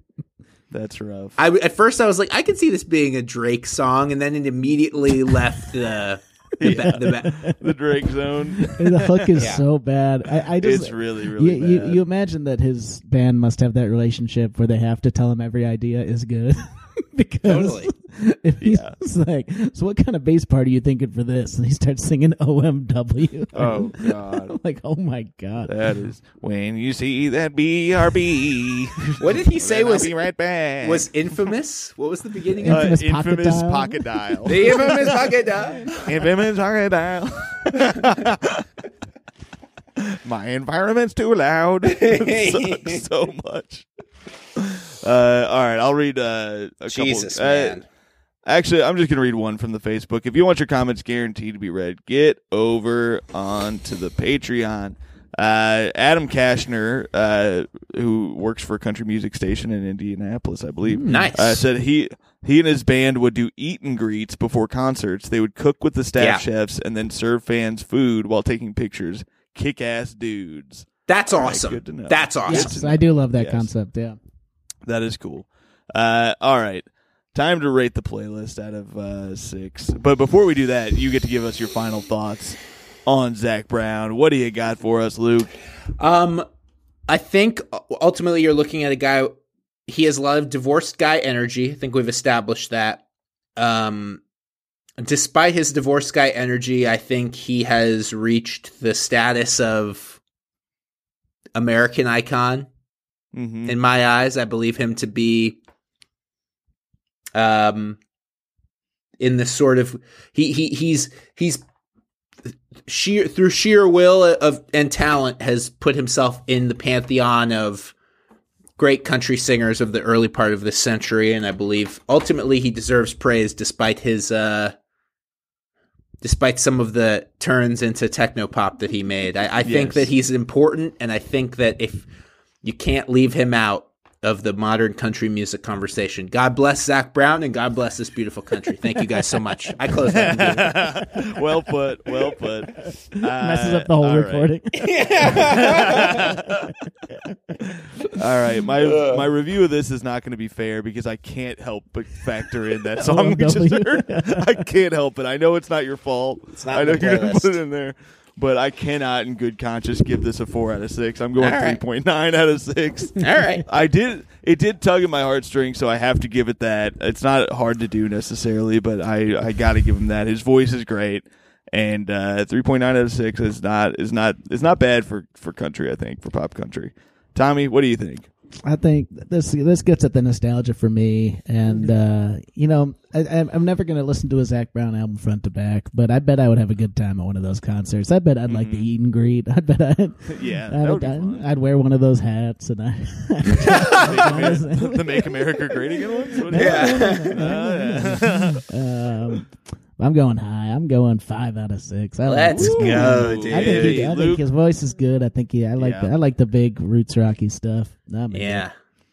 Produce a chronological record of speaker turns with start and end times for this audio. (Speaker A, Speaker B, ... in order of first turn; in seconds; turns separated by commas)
Speaker A: 0.7-1.4, Speaker B: 1.4-7.5, Speaker A: 6.6-9.5, Speaker C: 6.7-7.6, Speaker C: 8.6-25.8, Speaker B: 9.4-9.6, Speaker A: 10.4-12.0, Speaker B: 17.5-17.9, Speaker A: 18.6-19.0, Speaker A: 23.6-24.6, Speaker A: 25.7-31.4, Speaker B: 29.2-30.2, Speaker B: 30.8-32.9, Speaker C: 32.6-34.7, Speaker A: 32.7-35.3, Speaker B: 34.5-36.3, Speaker A: 36.0-38.7, Speaker A: 40.0-43.9, Speaker B: 41.9-43.0, Speaker A: 44.5-47.8, Speaker B: 46.9-47.9, Speaker A: 48.5-73.7, Speaker C: 60.9-61.3, Speaker B: 61.0-61.6, Speaker B: 66.2-66.4, Speaker B: 71.1-72.8, Speaker C: 72.5-74.2, Speaker A: 74.8-85.5, Speaker B: 86.0-86.5, Speaker B: 87.1-93.0, Speaker B: 93.6-94.2, Speaker B: 95.0-100.2, Speaker B: 101.5-102.7, Speaker A: 103.3-103.8, Speaker B: 103.7-105.6, Speaker B: 107.3-108.0, Speaker B: 109.2-111.6, Speaker B: 112.9-117.9, Speaker B: 118.8-124.8, Speaker B: 126.2-132.1, Speaker A: 129.6-130.1, Speaker B: 132.6-141.0, Speaker A: 140.1-144.5, Speaker C: 143.2-147.6, Speaker B: 144.7-146.3, Speaker A: 145.3-146.7, Speaker A: 147.8-178.3, Speaker B: 148.8-149.2, Speaker C: 153.0-154.7, Speaker B: 156.5-157.6, Speaker B: 161.4-161.8, Speaker B: 163.2-163.7, Speaker C: 178.7-195.7, Speaker A: 188.5-188.9, Speaker A: 190.3-191.5, Speaker A: 193.6-198.6, Speaker C: 196.5-208.7, Speaker B: 196.5-197.6, Speaker B: 202.2-204.1, Speaker A: 202.5-204.4, Speaker A: 205.8-206.1, Speaker B: 208.3-208.7